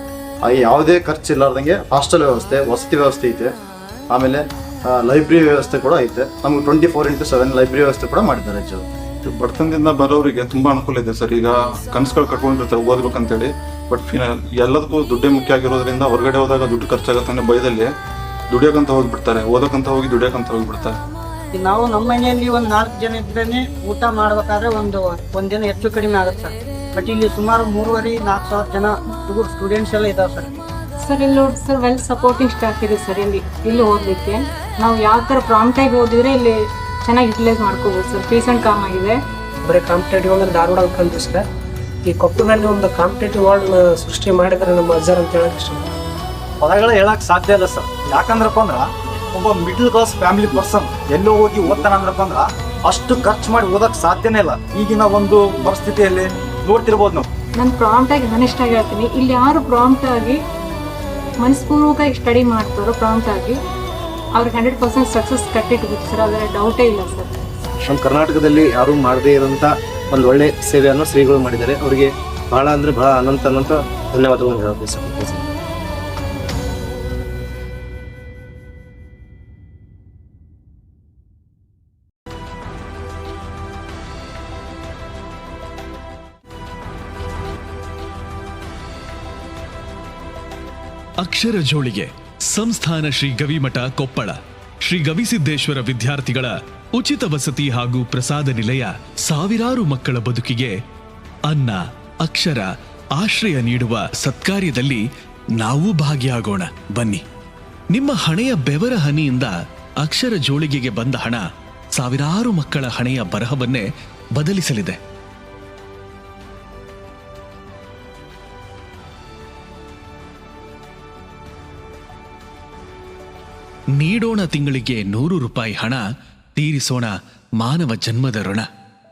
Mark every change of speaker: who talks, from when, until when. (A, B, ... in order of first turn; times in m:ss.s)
0:00.4-0:03.5 A
0:04.1-0:08.8 A
0:09.2-0:17.9 B
0:18.5-0:21.0 B
0:21.6-0:30.5 C
0:31.0-0:39.2 D
0:39.7-0:41.4 E
0:42.0-0:45.9 E
0:46.6-0:57.3 F
0:57.6-1:00.4 D
1:01.4-1:03.6 D
1:04.4-1:07.3 D
1:07.9-1:15.4 G
1:31.2-1:40.7 H
1:41.5-1:42.7 H
1:43.2-1:45.0 H
1:45.6-1:47.2 H
1:47.9-1:49.5 H
1:50.0-1:51.4 H
1:51.9-1:53.8 H
1:54.4-1:55.0 H
2:04.0-2:06.0 H
2:06.6-2:08.6 H